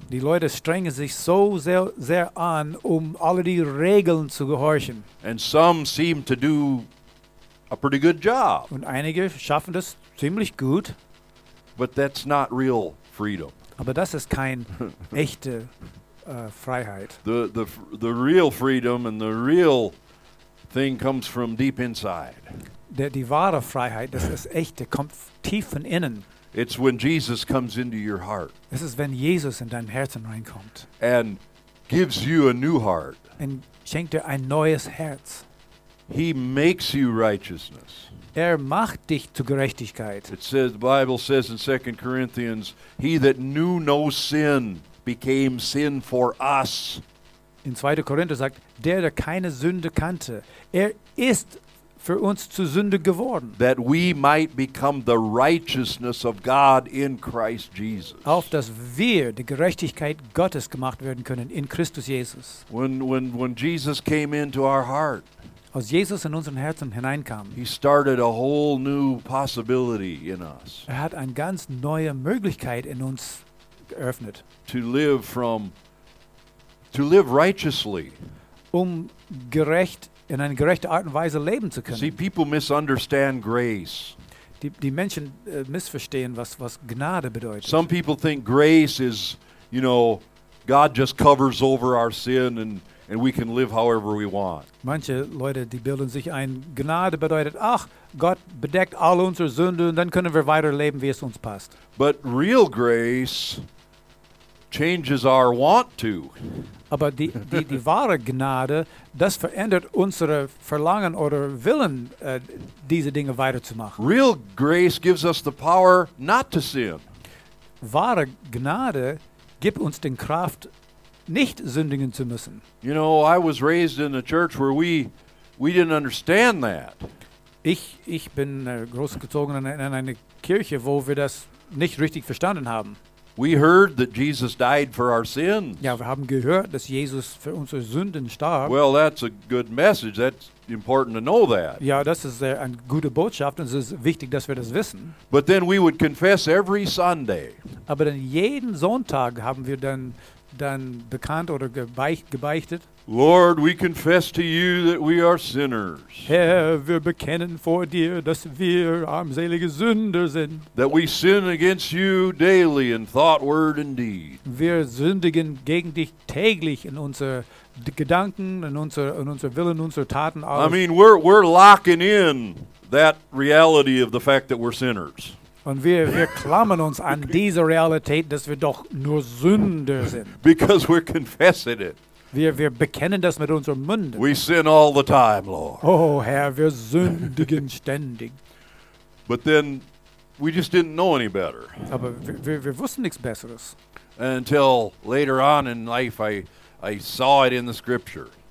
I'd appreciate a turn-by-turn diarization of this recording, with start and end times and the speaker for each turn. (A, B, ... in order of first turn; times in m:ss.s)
0:00.1-0:05.0 A
0:05.2-0:06.9 B
0:07.7-0:08.7 B
0:08.7-0:10.9 A
0:11.8-0:13.5 B
0:13.8-0:15.7 A
0:16.2-0:17.2 A
0:17.2-0:19.9 B
0:20.7-0:22.5 B
0:22.9-0:26.2 A
0:26.5-0:28.5 B
0:28.7-0:30.9 A
0:31.0-0:33.2 B
0:33.4-0:35.4 A
0:36.1-0:38.0 B
0:38.3-0:40.3 A
0:40.3-0:47.0 B
0:47.6-0:53.6 A
0:53.6-0:58.4 B
0:58.2-1:02.6 A
1:02.7-1:05.2 B
1:05.7-1:07.6 A
1:07.6-1:10.9 B
1:10.9-1:14.4 A
1:14.6-1:15.7 B
1:16.9-1:18.2 B
1:18.7-1:22.2 A
1:21.9-1:24.1 B
1:24.6-1:27.8 A
1:27.6-1:34.7 B
1:34.8-1:41.7 A
1:42.0-1:43.6 B
1:44.7-1:46.3 B
1:46.9-1:54.0 A
1:54.0-1:57.0 B
1:57.8-2:00.7 A
2:01.3-2:02.6 A
2:02.8-2:07.0 B
2:07.6-2:13.0 A
2:13.4-2:15.9 B
2:15.8-2:18.8 A
2:18.6-2:21.8 B
2:21.8-2:25.1 A
2:25.3-2:27.6 B
2:27.9-2:32.8 A
2:33.1-2:36.3 B
2:36.2-2:40.7 A
2:40.8-2:44.4 B
2:44.4-2:50.8 A
2:50.5-2:55.4 B
2:55.6-3:00.4 A
3:00.4-3:02.0 B
3:02.3-3:04.2 A
3:04.2-3:05.8 B
3:05.8-3:08.4 A
3:09.3-3:09.8 B
3:10.4-3:11.9 B
3:11.9-3:13.8 A
3:14.2-3:18.3 B